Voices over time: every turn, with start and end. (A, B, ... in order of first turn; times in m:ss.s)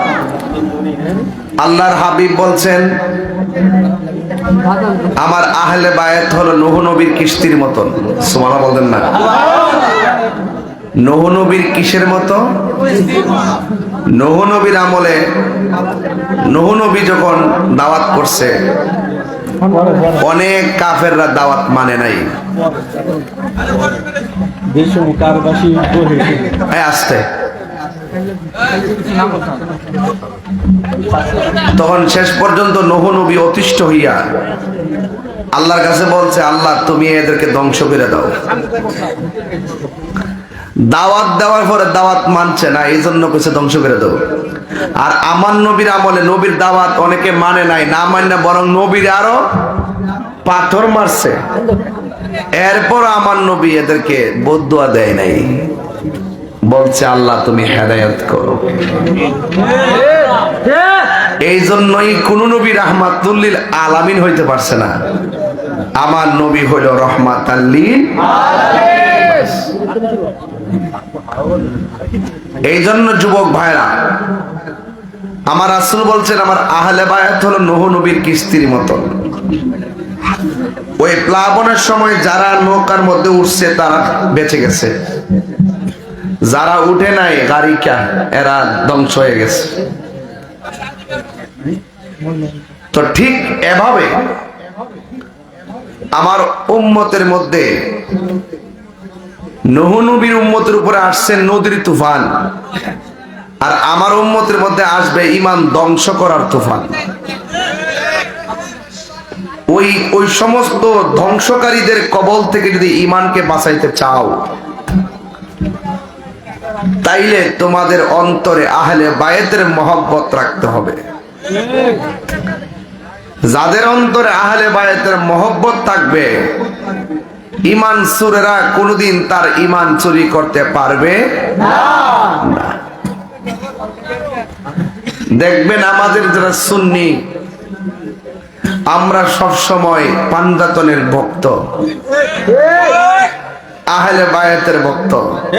0:01.6-0:02.9 A
0:05.2-0:09.2 A
0:11.0-0:12.4 A
0:14.2-0:15.2 A
0:16.5-0:18.5 A
0:19.6-0:20.2 B
0:20.2-0:22.3 A
0:24.7-0:26.6 B
0:26.7-0:27.3 A
0:31.7-0:34.2 A
0:35.5-0:38.4 A
0:40.8-0:44.2 A
0:45.0-0:49.4 A
0:50.4-0:51.4 A
0:52.6-0:55.7 A
0:56.7-0:58.7 A
1:01.4-1:04.9 A
1:06.0-1:08.2 A
1:12.7-1:13.9 A
1:15.5-1:19.1 A
1:21.0-1:24.9 A
1:26.5-1:29.7 A
1:32.9-1:34.2 A
1:36.2-1:37.7 A
1:39.7-1:42.3 A
1:43.6-1:47.0 A
1:49.7-1:54.5 A
1:57.0-2:01.0 A
2:03.5-2:06.5 A
2:07.7-2:11.3 A
2:12.3-2:12.8 A
2:15.4-2:17.2 A
2:18.9-2:21.6 A
2:22.6-2:23.0 B
2:23.9-2:25.4 A